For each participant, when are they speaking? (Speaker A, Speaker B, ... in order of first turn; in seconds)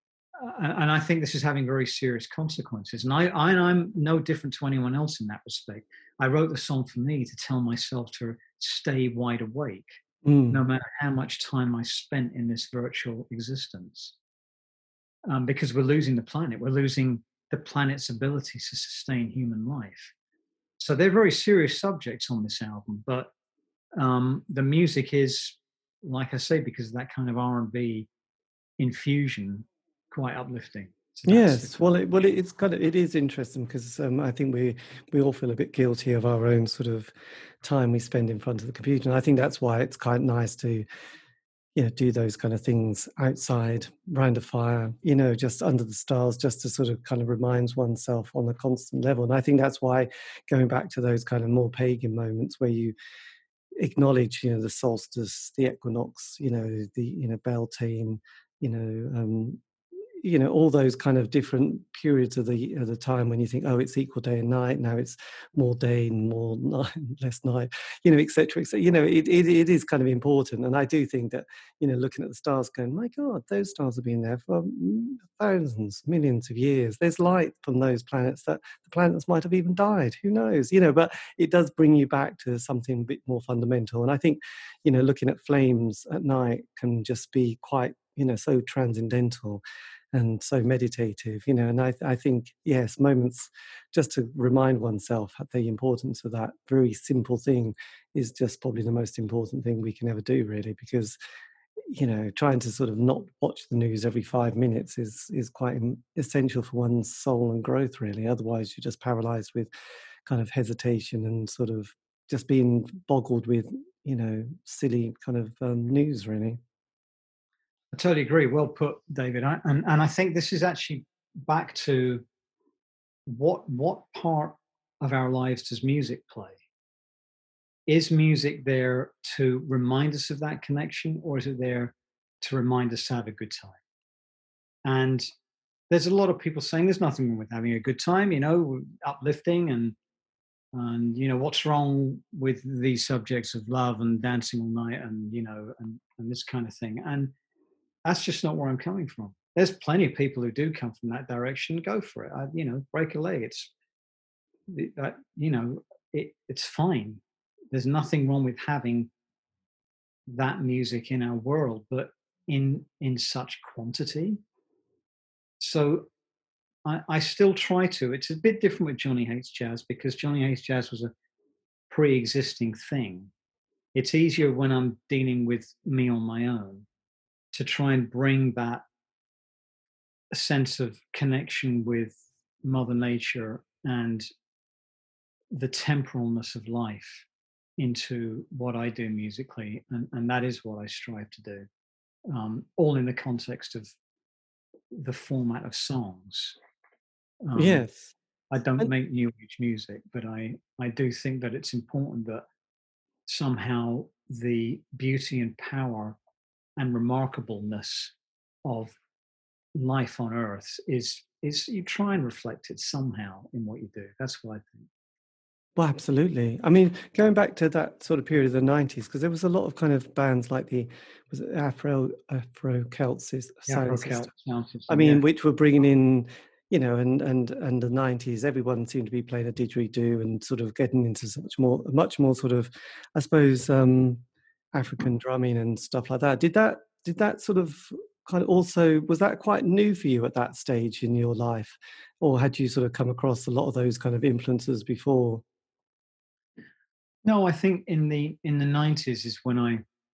Speaker A: 0.4-10.0, 10.5-14.2, 15.3-20.1, 20.8-23.3, 24.0-28.1, 28.8-32.0, 117.9-122.2, 123.3-126.6, 127.9-133.8, 134.8-135.3, 135.9-140.0, 140.7-147.3, 148.1-153.7, 154.7-157.2, 157.7-159.1, 160.3-164.4, 165.6-166.1, 166.8-171.1, 171.9-173.3, 173.9-176.9, 177.5-178.8, 180.3-184.3, 185.5-187.3, 187.8-191.7, 192.3-193.9, 194.9-196.6, 197.4-197.8, 198.5-202.4, 203.3-206.2, 206.8-209.0, 209.8-214.9, 223.7-225.2, 247.2-249.8
Speaker B: 10.2-10.6, 31.3-40.9, 41.8-52.9, 53.8-59.6, 60.2-89.6, 90.1-101.2, 101.9-109.7, 110.3-116.6, 197.6-198.1, 215.8-224.3, 224.9-245.4